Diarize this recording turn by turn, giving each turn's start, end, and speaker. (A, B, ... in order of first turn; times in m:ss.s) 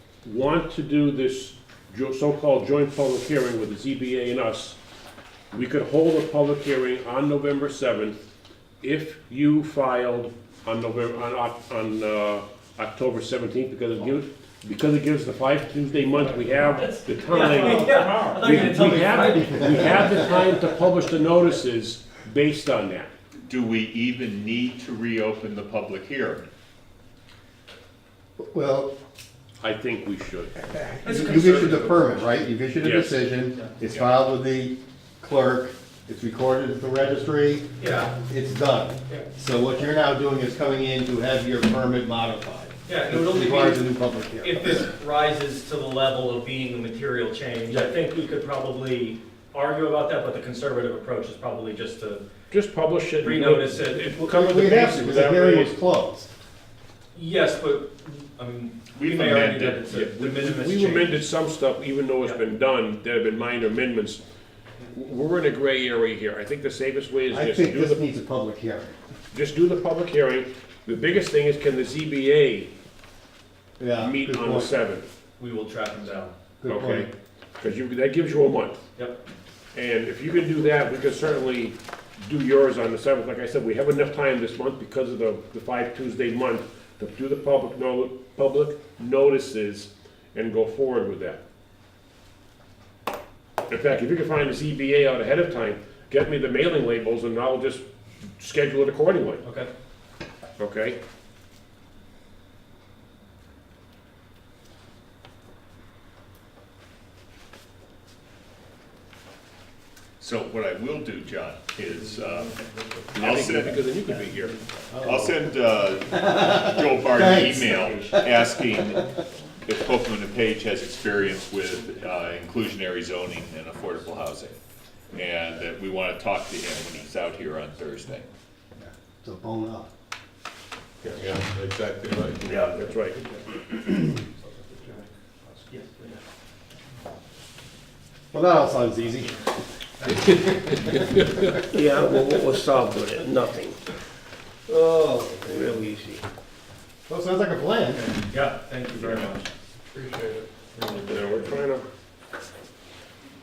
0:00.2-0:04.8 A
0:05.5-0:08.2 A
0:08.8-0:23.1 A
0:16.2-0:20.7 B
0:23.5-0:26.5 C
0:28.4-0:28.9 D
0:29.6-0:30.5 A
0:30.8-0:37.7 D
0:31.0-0:32.4 B
0:32.8-0:33.2 A
0:33.8-0:34.1 C
0:37.8-0:38.1 B
0:38.2-0:44.9 D
0:42.9-0:52.2 B
0:52.5-0:55.8 A
0:53.2-0:54.2 B
0:54.2-0:56.3 D
0:57.1-1:01.2 B
0:58.9-1:00.4 C
1:00.2-1:04.2 A
1:04.9-1:08.0 A
1:07.3-1:08.9 D
1:09.3-1:12.7 A
1:13.8-1:14.7 D
1:14.0-1:15.1 A
1:15.4-1:16.3 B
1:16.6-1:17.1 D
1:16.6-1:18.8 A
1:19.7-1:31.4 A
1:33.7-1:37.8 A
1:38.4-1:39.4 A
1:39.4-1:39.7 B
1:40.6-1:41.0 A
1:50.2-1:52.6 C
1:52.4-1:52.9 B
1:53.1-1:54.6 A
1:53.1-1:53.9 C
1:54.3-1:54.9 B
1:54.9-1:55.3 D
1:55.0-1:59.1 C
1:56.1-1:58.2 B
1:56.2-1:58.2 D
1:59.6-2:04.6 C
2:05.1-2:08.3 C
2:07.2-2:07.6 E
2:08.8-2:09.9 D
2:11.0-2:12.6 E
2:12.4-2:12.7 F
2:12.7-2:13.2 A
2:13.1-2:13.4 B
2:15.6-2:16.2 B
2:18.3-2:19.5 D
2:20.1-2:21.0 D
2:21.7-2:23.8 F
2:24.7-2:25.4 D
2:25.4-2:26.2 F
2:27.1-2:28.0 D
2:27.9-2:29.5 B
2:29.0-2:29.4 C
2:30.7-2:31.6 B
2:31.0-2:31.8 A